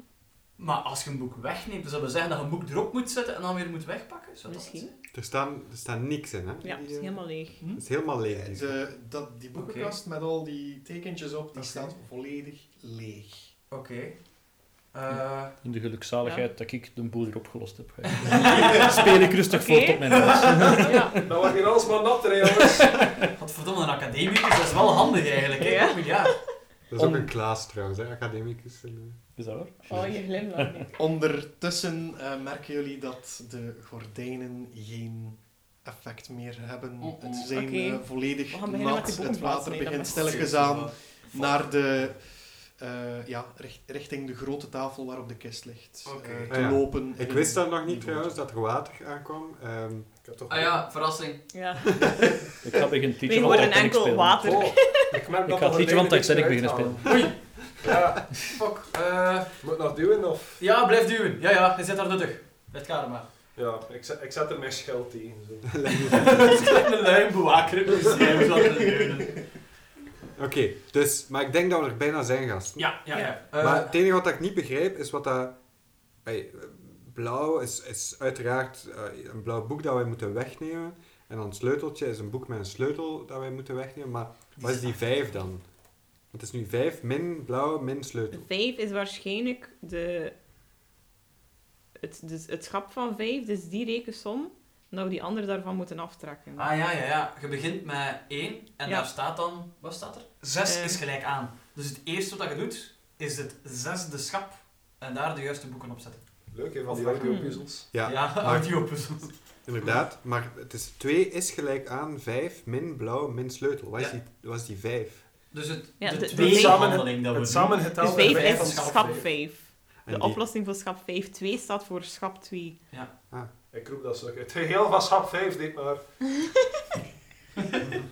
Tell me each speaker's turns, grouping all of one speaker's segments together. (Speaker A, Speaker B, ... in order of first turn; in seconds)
Speaker A: 0.6-5.0, 9.6-9.9, 11.6-11.9, 13.7-15.6, 18.2-19.1, 20.1-20.9, 23.4-26.4, 37.0-37.4, 40.1-42.1, 46.0-46.8, 50.5-51.7, 57.0-57.9, 58.5-59.6, 60.6-63.3, 66.1-69.6, 72.8-74.0, 84.6-85.0, 96.6-107.5, 108.0-110.0, 115.5-119.3, 127.6-127.9
Speaker B: 4.5-5.0, 6.6-7.7, 16.2-16.5, 19.4-21.2, 25.5-26.5, 29.9-30.9, 37.5-40.5, 51.5-52.1, 52.8-55.2, 73.1-73.4, 88.3-90.3, 92.0-96.7, 100.6-101.0, 107.2-107.7, 116.0-117.0, 117.9-122.8
Speaker C: 5.1-8.8, 26.9-29.3, 46.5-50.1, 65.7-66.7, 70.4-85.7, 86.2-88.5, 107.9-115.5, 120.0-120.4
Speaker D: 7.6-13.5, 30.9-48.4
Speaker E: 15.1-21.4, 22.6-23.3, 29.4-30.9, 52.6-57.5
Speaker F: 21.2-23.1, 50.2-50.9, 54.4-58.3, 59.6-60.6, 63.5-66.0, 106.5-107.9, 116.3-119.3, 123.7-126.0